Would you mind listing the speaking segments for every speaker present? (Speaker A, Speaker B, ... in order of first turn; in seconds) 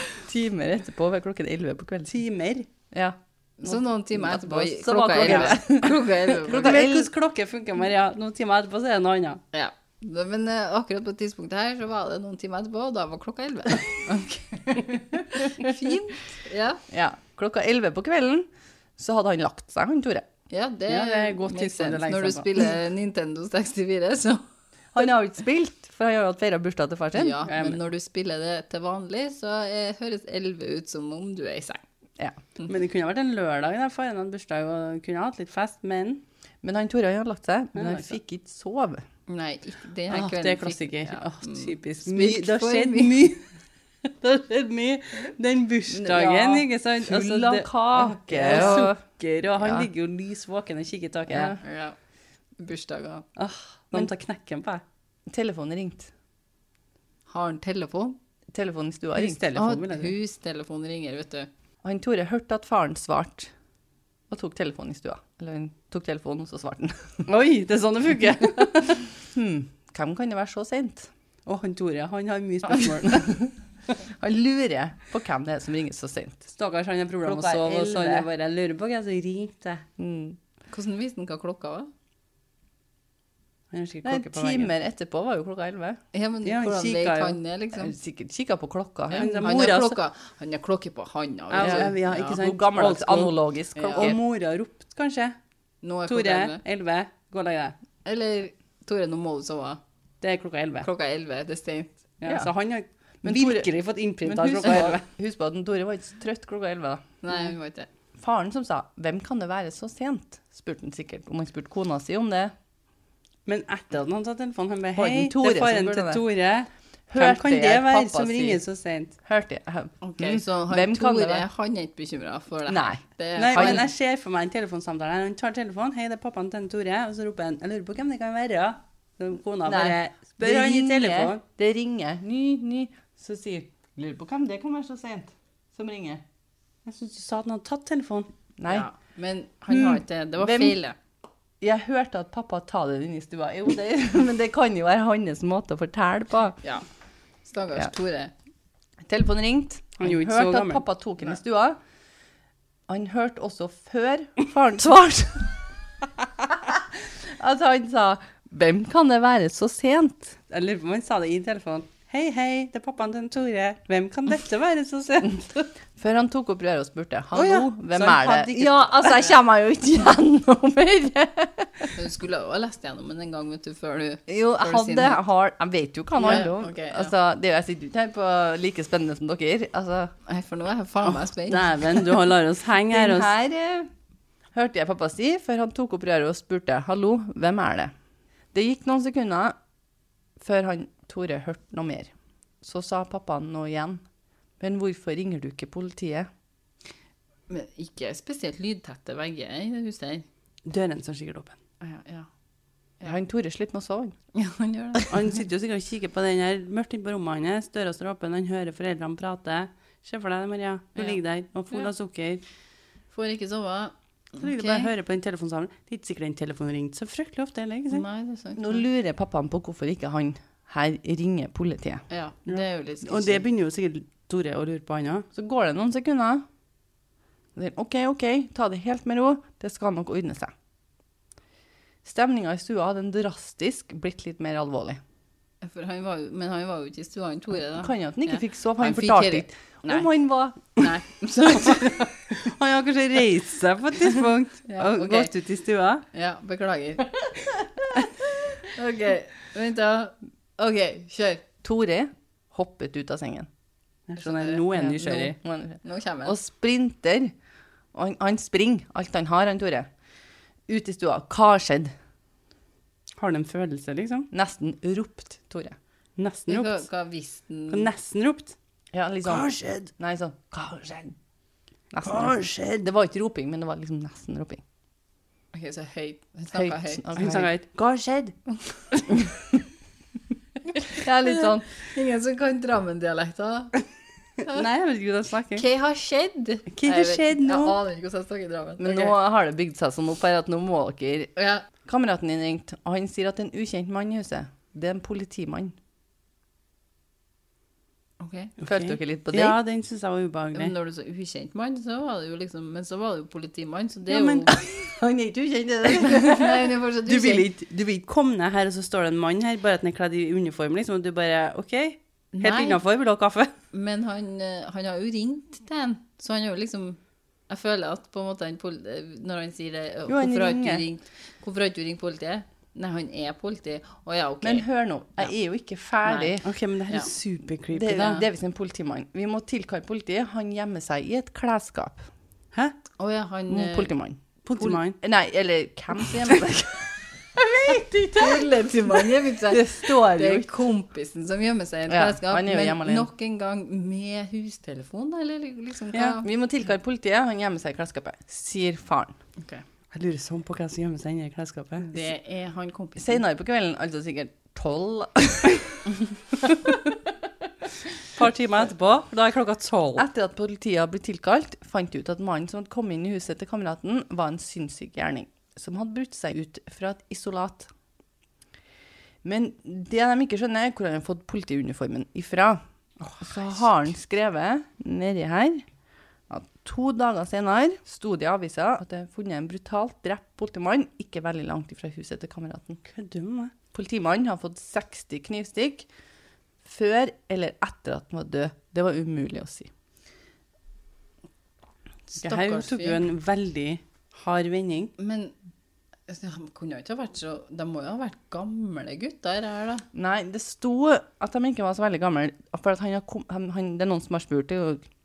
Speaker A: 0.2-2.1, 2.9-7.1, 16.9-20.3, 24.9-27.6, 36.6-39.0, 45.9-49.0, 49.5-49.9, 51.3-51.6, 55.3-56.1, 58.5-59.4, 61.8-63.5, 64.3-67.2, 69.3-71.1, 72.7-73.5, 74.1-76.5, 77.2-78.3, 80.0-80.4, 84.0-86.0, 87.7-89.9, 91.6-94.2, 103.2-107.5, 108.2-112.5, 115.0-116.2, 117.1-118.6, 119.2-121.5, 122.7-123.0, 123.5-123.8, 129.7-136.2, 138.6-138.9, 139.7-140.8, 141.6-146.6, 149.1-151.8, 152.9-155.6, 156.4-160.4, 165.9-171.9, 174.3-180.1, 182.9-183.9, 184.5-187.9, 188.5-189.6, 190.4-192.1, 192.6-194.0, 194.6-196.3, 203.0-204.2, 218.6-222.0, 225.3-226.4, 227.6-230.5, 232.0-235.0, 237.7-240.8, 251.6-253.5, 254.7-257.3, 257.9-259.9, 260.7-261.9, 264.3-265.8, 268.9-271.1, 271.9-274.6, 276.5-278.3, 281.0-281.6, 288.8-291.3, 291.8-295.8, 298.7-299.6, 304.5-306.7, 320.1-320.9, 324.4-326.5, 327.7-332.1, 333.5-336.9, 339.5-340.6, 341.9-343.1, 345.9-349.1, 353.0-355.9, 360.0-367.7, 369.2-372.6, 373.2-375.7, 376.3-382.8, 383.7-385.9, 386.6-389.7, 399.9-404.8
Speaker B: 2.1-2.7, 5.2-9.4, 20.9-22.6, 27.5-27.8, 32.7-36.2, 37.8-38.2, 40.1-43.5, 44.2-51.6, 53.4-54.8, 59.1-60.1, 67.3-69.1, 71.5-73.3, 76.5-79.8, 83.7-84.7, 86.4-87.4, 89.1-89.9, 91.5-95.3, 96.1-97.8, 100.2-100.9, 102.2-105.0, 113.5-119.2, 123.4-131.4, 136.9-138.3, 150.0-150.8, 160.5-165.6, 167.3-169.3, 181.0-183.3, 200.7-201.6, 205.1-212.4, 214.4-218.1, 222.5-225.3, 242.4-246.0, 254.1-255.4, 263.2-264.3, 266.2-266.9, 267.7-268.6, 269.2-269.9, 272.1-272.6, 277.2-277.7, 284.5-285.6, 286.7-287.8, 298.6-300.7, 304.1-304.5, 307.1-313.5, 326.4-328.3, 334.4-335.0, 349.9-351.9, 358.1-360.1, 373.0-373.7, 382.9-383.5, 392.2-394.9
Speaker C: 3.6-6.8, 9.5-16.8, 20.5-24.4, 27.1-31.8, 39.3-43.3, 48.5-48.9, 51.6-52.0, 52.6-53.3, 57.3-58.2, 59.5-61.5, 80.7-81.9, 86.1-87.9, 89.1-92.4, 93.8-94.1, 95.8-96.6, 98.0-99.8, 100.8-101.9, 107.2-107.9, 120.0-123.8, 138.7-141.0, 147.4-148.3, 172.0-175.2, 176.2-177.1, 180.2-181.8, 197.5-200.3, 201.8-202.3, 204.3-205.1, 210.9-211.9, 213.1-214.9, 217.9-218.8, 222.1-223.5, 235.6-242.2, 244.7-245.3, 246.1-247.1, 248.7-251.4, 254.2-255.3, 255.8-256.4, 266.5-267.9, 275.5-277.1, 280.8-283.8, 284.4-284.6, 285.6-289.1, 291.4-291.7, 298.2-298.5, 300.5-304.5, 305.9-307.5, 312.4-312.8, 313.7-324.7, 326.0-326.4, 333.0-333.9, 337.7-346.3, 349.4-349.6, 351.9-353.2, 392.1-393.0, 395.0-395.3, 396.1-399.9